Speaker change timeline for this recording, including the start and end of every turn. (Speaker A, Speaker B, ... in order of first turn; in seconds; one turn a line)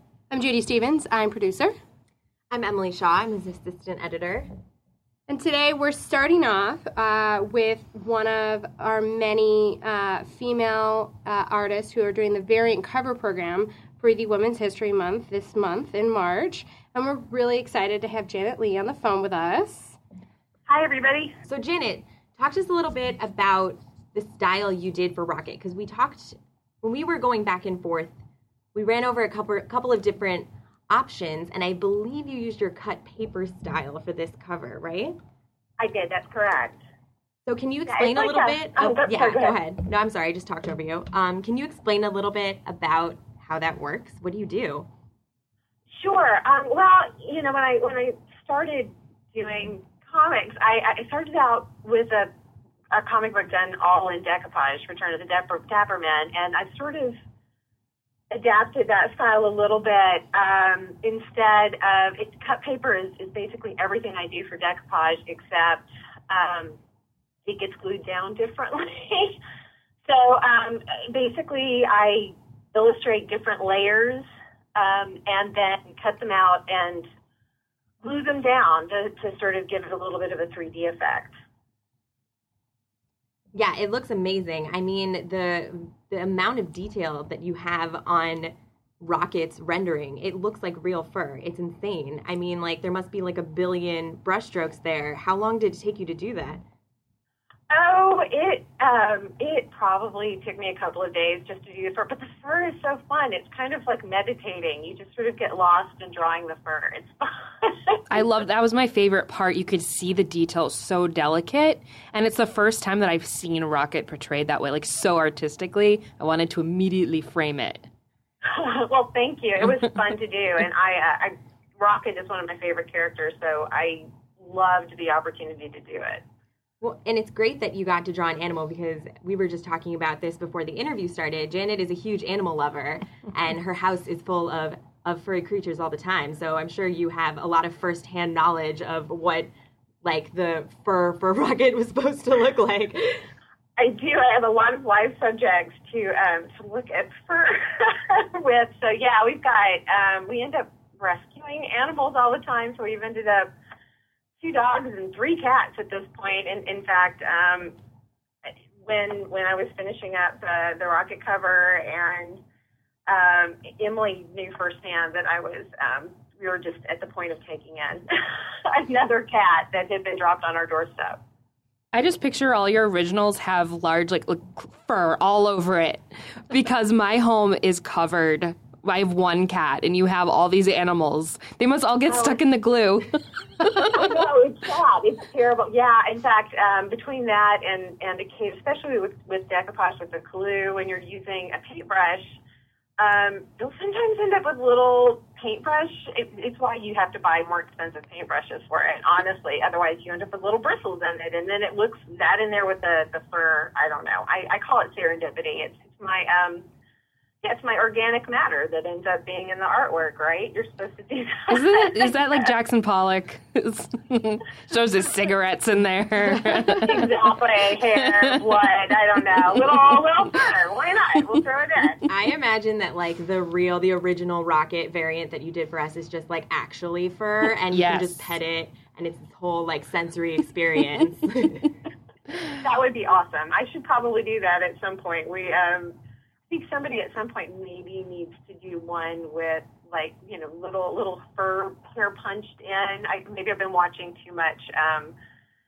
Speaker A: 0.3-1.7
Speaker B: 2.5-4.5
Speaker A: 5.3-20.0
Speaker C: 20.7-21.4
Speaker B: 21.4-28.1
Speaker B: 28.7-35.2
Speaker C: 35.8-36.8
Speaker B: 37.5-44.9
Speaker C: 37.9-39.6
Speaker C: 45.9-52.3
Speaker C: 52.9-57.2
Speaker C: 58.3-66.8
Speaker C: 67.5-69.4
Speaker C: 70.1-77.1
Speaker C: 78.0-81.3
Speaker B: 83.5-96.6
Speaker C: 97.7-108.3
Speaker D: 108.1-117.9
Speaker C: 118.5-126.2
Speaker B: 126.8-139.5
Speaker B: 140.0-143.3
Speaker C: 143.8-153.5
Speaker C: 154.4-157.8
Speaker C: 158.8-162.4
Speaker C: 163.1-171.2
Speaker D: 171.9-183.1
Speaker C: 182.1-182.4
Speaker C: 183.9-192.4
Speaker C: 193.0-206.7
Speaker C: 207.4-212.5
Speaker D: 211.5-216.9
Speaker C: 216.8-222.0
Speaker D: 218.0-218.3
Speaker B: 222.1-231.7
Speaker D: 227.7-228.3
Speaker C: 232.6-235.9
Speaker C: 236.5-245.2